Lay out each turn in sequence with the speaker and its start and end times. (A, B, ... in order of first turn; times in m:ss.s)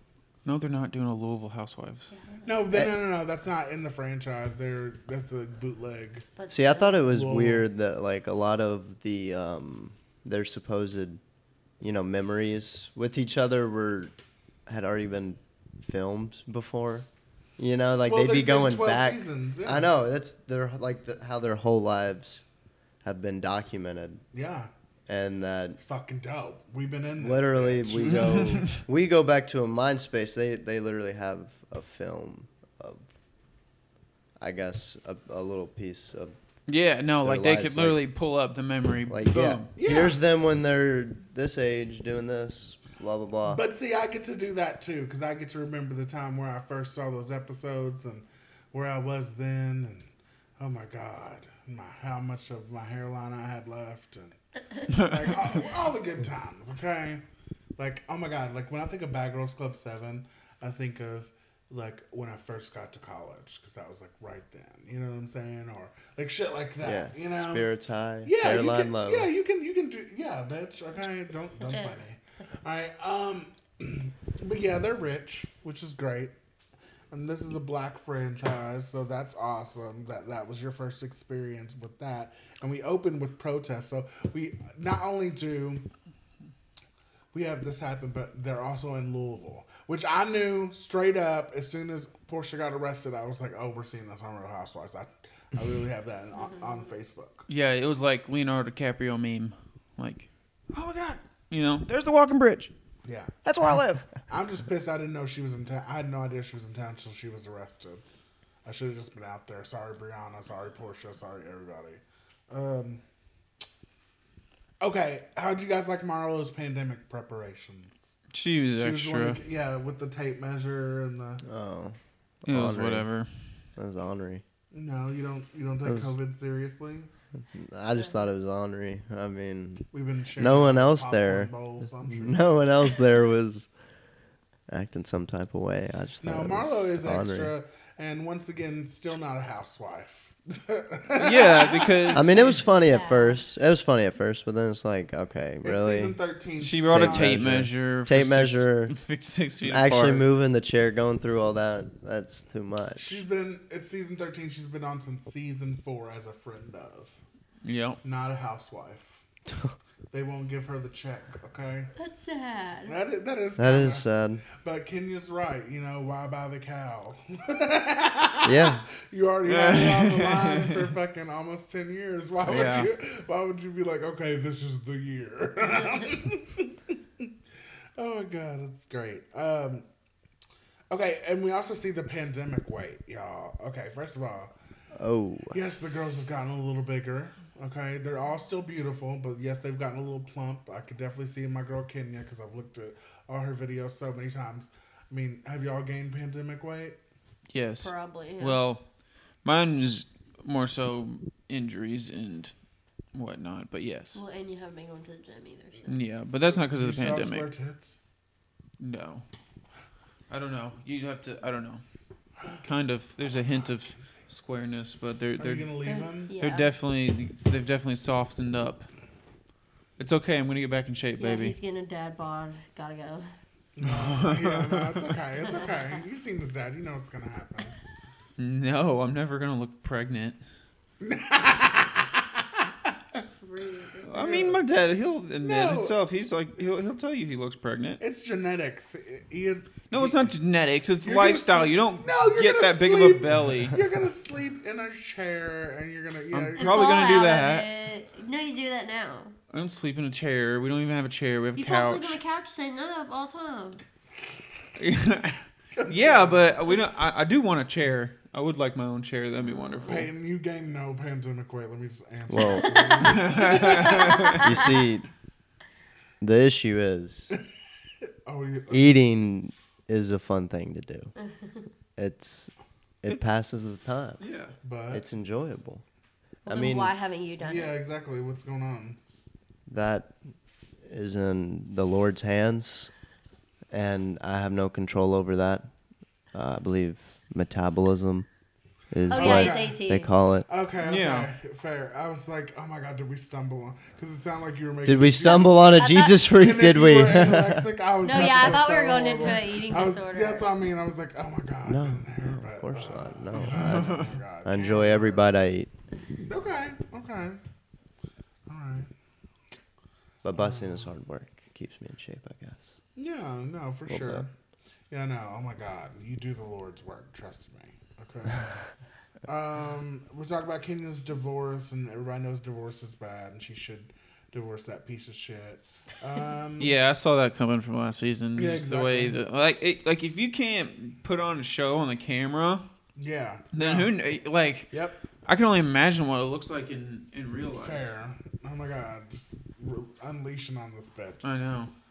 0:00.4-0:02.1 A
0:02.1-0:02.7 B
0:02.4-0:06.3 C
0:06.4-0:07.0 B
0:06.5-0:11.2 D
0:07.0-0:07.6 C
0:11.8-0:14.1 D
0:14.7-0:17.1 D
0:17.6-0:22.4 D
0:18.0-0:19.9 C
0:23.0-0:24.2 D
0:24.3-0:24.7 C
0:25.1-0:25.8 D
0:25.8-0:28.7 C
0:27.2-0:33.0 D
0:28.1-0:28.7 A
0:34.4-0:36.4 D
0:36.7-0:39.7 A
0:37.2-0:38.0 D
0:39.1-0:43.6 D
0:39.8-0:40.2 C
0:43.5-0:57.2 C
0:57.8-1:07.7 C
1:06.8-1:09.3 D
1:08.2-1:16.3 C
1:17.1-1:25.8 C
1:27.3-1:37.4 C
1:37.5-1:42.7 A
1:43.0-1:43.3 C
1:43.4-1:44.1 A
1:44.3-1:48.0 C
1:48.6-1:53.0 C
1:54.8-1:58.1 C
1:58.3-1:59.4 A
1:58.8-2:01.4 C
2:01.4-2:03.1 D
2:02.5-2:03.3 A
2:03.8-2:04.4 D
2:04.7-2:07.1 C
2:05.8-2:06.1 D
2:07.5-2:13.7 D
2:09.9-2:12.4 C
2:14.7-2:17.5 D
2:16.2-2:22.5 C
2:21.2-2:22.6 A
2:22.1-2:26.2 D
2:22.7-2:23.4 B
2:25.6-2:27.4 C
2:26.6-2:30.2 A
2:26.9-2:28.9 D
2:29.7-2:33.2 D
2:33.0-2:37.2 C
2:37.6-2:38.0 A
2:38.0-2:39.2 C
2:40.1-2:41.9 C
2:42.0-2:43.0 B
2:42.9-2:57.3 C
2:43.6-2:44.4 D
2:48.4-2:48.8 D
2:49.4-2:50.9 A
2:52.4-2:52.9 A
2:58.0-2:59.8 C
3:00.9-3:04.5 C
3:04.9-3:05.6 D
3:05.5-3:17.0 C
3:17.5-3:18.8 A
3:17.8-3:18.6 B
3:19.4-3:22.5 A
3:23.1-3:24.2 A
3:24.1-3:26.0 B
3:25.9-3:27.5 A
3:26.6-3:28.0 C
3:28.8-3:29.2 A
3:30.3-3:31.8 A
3:32.6-3:35.7 A
3:35.4-3:36.3 C
3:35.8-3:36.7 B
3:36.4-3:38.9 A
3:40.0-3:41.5 A
3:41.2-3:43.3 B
3:43.8-3:47.7 C
3:43.8-3:45.1 A
3:48.4-3:50.4 A
3:51.0-3:52.9 C
3:53.2-3:54.1 B
3:54.1-3:58.0 A
3:54.1-3:54.6 C
3:55.4-3:56.0 C
3:58.0-4:00.3 C
3:59.9-4:03.8 A
4:01.0-4:06.9 C
4:06.3-4:07.7 A
4:06.6-4:09.3 B
4:09.5-4:12.2 A
4:11.6-4:13.8 B
4:14.8-4:20.1 A
4:15.8-4:16.4 C
4:19.4-4:20.0 B
4:19.8-4:23.8 C
4:22.3-4:23.0 D
4:22.9-4:24.4 B
4:23.0-4:24.4 A
4:24.3-4:25.1 D
4:26.2-4:27.3 D
4:28.2-4:29.0 C
4:28.7-4:31.1 D
4:32.0-4:34.2 D
4:34.2-4:34.5 A
4:34.6-4:35.0 C
4:34.9-4:35.8 D
4:36.4-4:37.7 B
4:36.5-4:36.9 D
4:37.4-4:39.0 C
4:39.7-4:40.1 D
4:40.8-4:42.9 D
4:43.7-4:45.7 D
4:46.3-4:48.3 D
4:48.9-4:50.5 D
4:49.1-4:50.1 B
4:49.1-4:49.8 C
4:50.5-5:05.3 C
4:50.8-4:51.3 A
4:54.8-4:57.7 D
4:55.8-4:56.2 B
4:58.0-5:00.5 B
5:01.6-5:05.7 D
5:03.4-5:04.1 A
5:06.2-5:07.4 C
5:08.5-5:08.9 C
5:10.2-5:12.7 D
5:10.4-5:10.9 C
5:13.0-5:14.3 C
5:13.9-5:14.2 D
5:14.9-5:18.5 C
5:19.2-5:26.7 C
5:26.6-5:32.6 A
5:28.4-5:29.2 C
5:33.0-5:33.9 C
5:33.5-5:34.7 A
5:34.7-5:35.0 C
5:35.2-5:37.9 A
5:37.5-5:41.2 C
5:41.2-5:41.7 A